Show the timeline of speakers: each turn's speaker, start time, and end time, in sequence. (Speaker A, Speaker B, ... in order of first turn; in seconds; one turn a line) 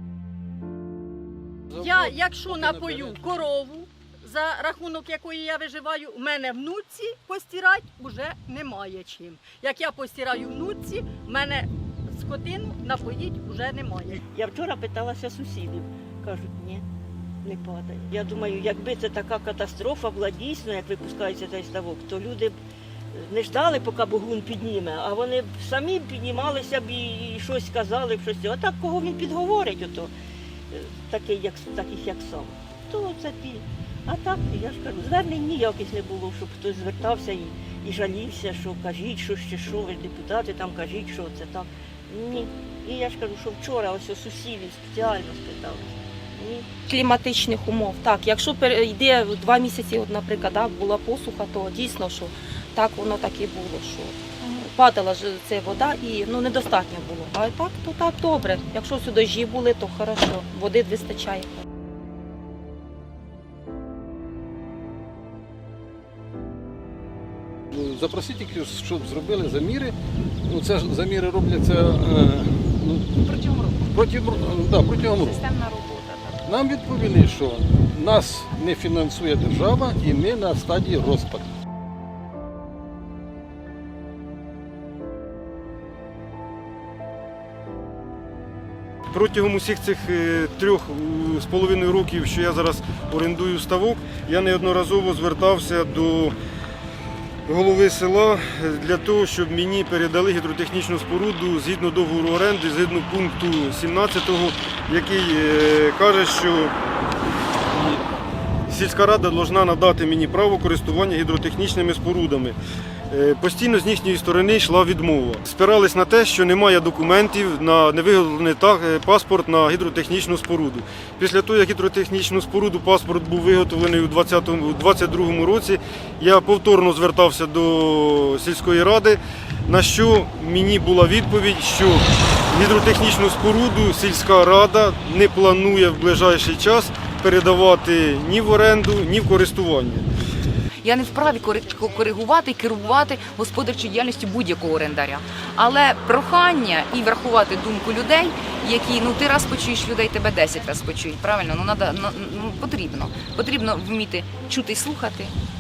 Speaker A: 1.7-14.2
Speaker B: 14.3-16.9
Speaker B: 17.4-22.6
Speaker B: 23.1-30.1
Speaker B: 30.7-46.7
Speaker C: 46.9-61.6
Speaker D: 67.7-73.2
Speaker E: 73.2-73.9
Speaker D: 73.9-75.5
Speaker E: 75.1-76.4
Speaker D: 76.5-81.5
Speaker F: 89.1-96.3
Speaker F: 97.5-106.8
Speaker F: 107.7-108.2
Speaker F: 108.7-112.6
Speaker F: 113.1-140.1
Speaker E: 140.8-155.3